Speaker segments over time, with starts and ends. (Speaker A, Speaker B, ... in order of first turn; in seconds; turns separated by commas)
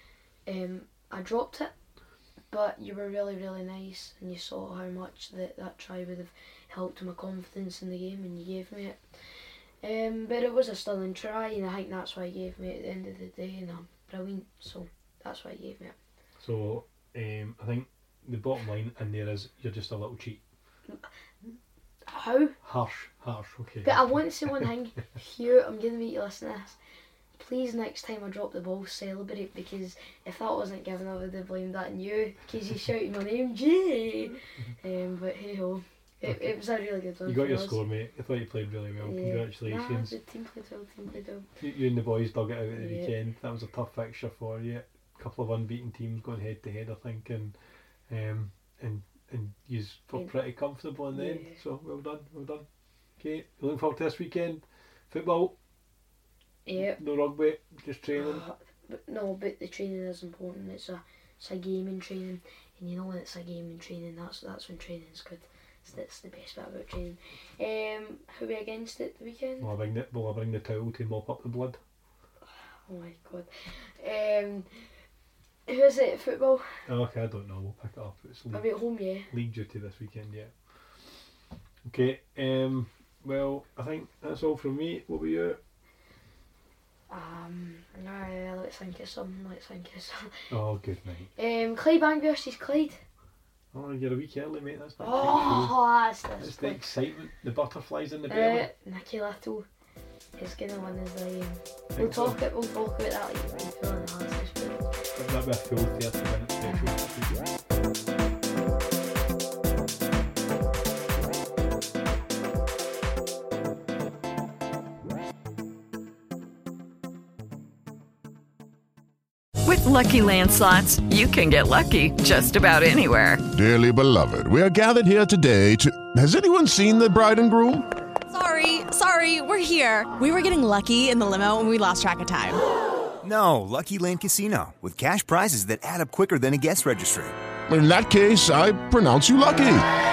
Speaker A: 0.5-1.7, Speaker A: 2.5-15.9, Speaker B: 16.4-20.4, Speaker A: 22.1-22.6, Speaker B: 22.6-24.6, Speaker A: 23.8-26.8, Speaker A: 27.4-37.8, Speaker B: 36.2-36.6, Speaker B: 37.2-40.2, Speaker A: 39.0-41.5, Speaker B: 41.6-47.6, Speaker A: 42.7-43.1, Speaker B: 48.1-52.7, Speaker A: 51.1-51.6, Speaker B: 53.2-55.6, Speaker A: 56.7-57.0, Speaker B: 56.8-58.5, Speaker A: 58.2-69.7, Speaker B: 69.6-71.8, Speaker A: 72.9-74.7, Speaker A: 75.7-76.7, Speaker B: 76.9-81.3, Speaker A: 78.5-79.3, Speaker B: 81.8-85.6, Speaker A: 87.1-90.4, Speaker B: 90.5-91.3, Speaker A: 91.4-93.0, Speaker B: 93.7-95.8, Speaker A: 95.0-96.8, Speaker B: 96.4-98.7, Speaker A: 98.3-99.7, Speaker A: 100.4-104.8, Speaker B: 101.9-102.4, Speaker B: 105.2-107.5, Speaker C: 119.7-123.4, Speaker D: 123.5-127.9, Speaker E: 128.3-132.6, Speaker F: 133.2-137.3, Speaker D: 137.7-139.9